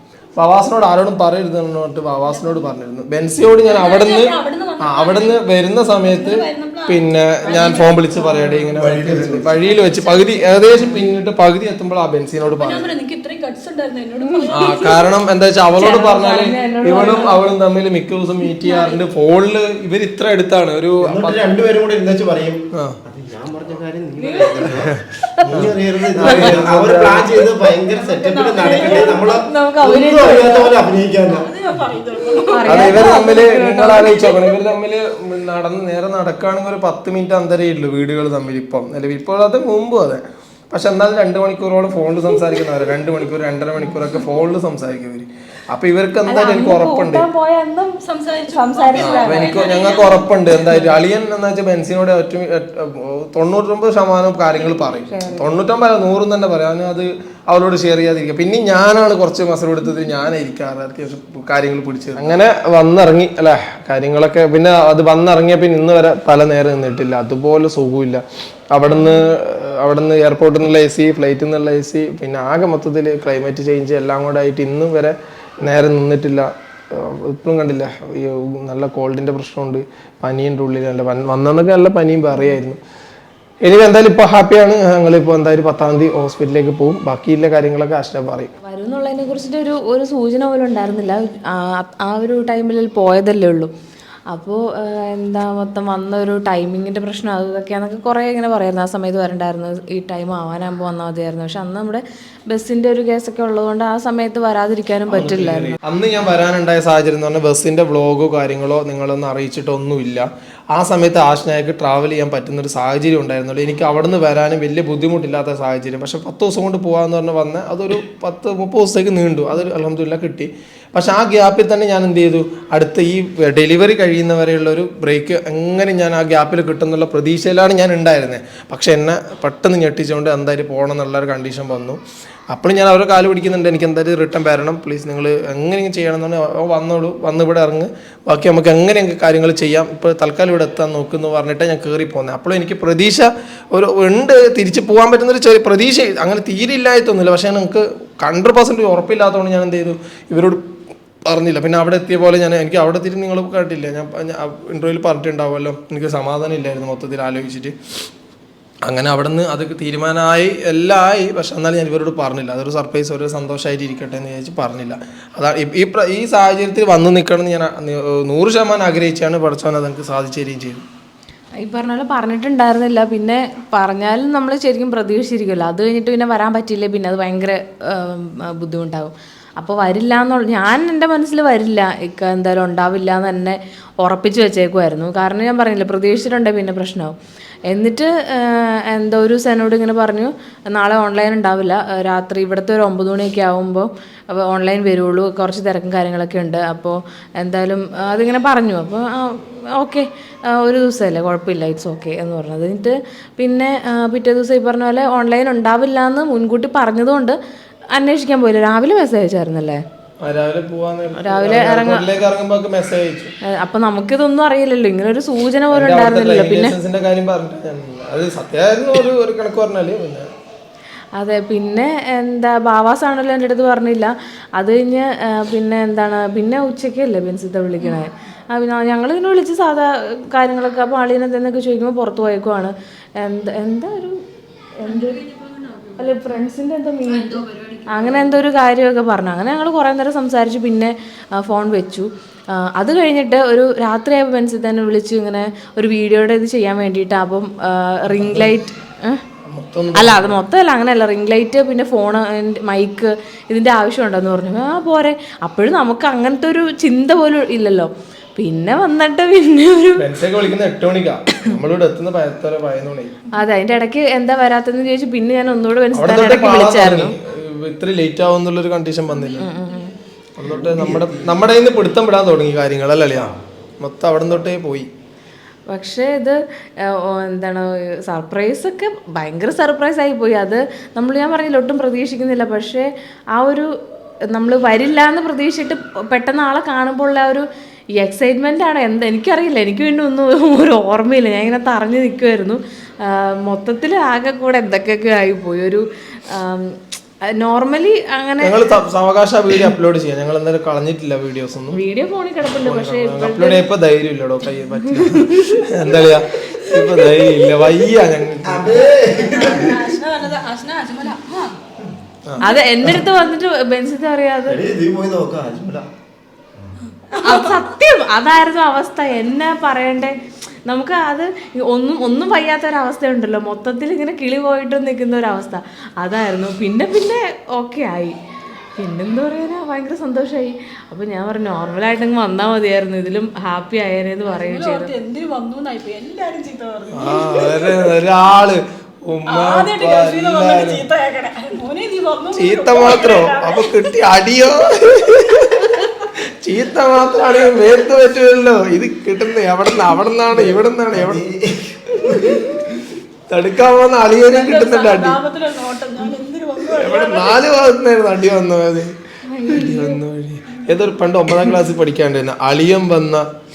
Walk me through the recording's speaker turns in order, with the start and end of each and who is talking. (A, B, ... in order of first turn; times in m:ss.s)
0:00.4-0:12.9 A
0:02.3-0:02.6 B
0:03.6-0:08.2 B
0:08.2-0:08.7 C
0:08.8-0:09.6 D
0:09.4-0:10.8 B
0:10.7-0:11.0 C
0:12.4-0:15.0 B
0:14.2-0:14.7 C
0:14.5-0:21.4 A
0:15.7-0:17.4 C
0:18.6-0:19.0 B
0:21.0-0:31.5 D
0:24.2-0:24.8 B
0:24.8-0:27.4 A
0:26.2-0:26.6 C
0:27.8-0:29.4 B
0:28.8-0:30.7 C
0:31.2-0:33.1 B
0:32.5-0:34.6 C
0:32.6-0:47.3 A
0:46.2-0:49.7 C
0:48.1-0:50.3 B
0:48.9-1:22.8 A
0:50.7-0:51.0 C
0:55.0-0:55.6 C
1:23.6-1:28.5 A
1:28.6-1:33.7 C
1:34.3-1:45.8 C
1:45.1-2:30.6 A
2:31.3-2:37.8 A
2:38.8-2:50.8 A
2:51.6-3:07.2 C
3:07.7-3:27.4 C
3:27.9-3:29.8 C
3:30.2-3:33.3 A
3:31.2-3:32.1 C
3:33.5-3:36.8 C
3:35.7-3:40.3 A
3:41.2-3:54.2 C
3:54.8-3:55.3 C
3:55.3-3:55.8 B
3:55.9-4:09.2 C
3:57.3-3:58.0 B
4:08.1-4:08.5 A
4:09.4-4:10.4 A
4:09.9-4:20.1 C
4:20.0-4:23.1 A
4:23.4-4:27.1 C
4:25.9-4:29.5 A
4:29.4-4:29.9 C
4:30.4-4:34.9 A
4:30.4-4:31.4 D
4:35.7-4:43.7 C
4:44.3-4:47.4 C
4:48.0-4:58.6 C
4:58.4-5:01.8 A
5:01.7-5:03.7 C
5:02.4-5:08.8 A
5:04.8-5:05.7 C
5:08.4-5:10.0 D
5:08.8-5:11.6 B
5:12.4-5:14.6 C
5:14.5-5:15.9 D
5:17.1-5:20.2 C
5:20.7-5:28.2 C
5:28.8-5:34.9 C
5:34.3-5:37.9 B
5:36.9-5:40.8 A
5:39.3-5:43.7 B
5:42.3-5:51.2 A
5:50.3-5:52.8 D
5:53.3-5:55.2 A
5:54.2-5:57.4 B
5:56.7-5:59.0 A
5:59.3-6:00.0 C
5:59.5-6:03.3 A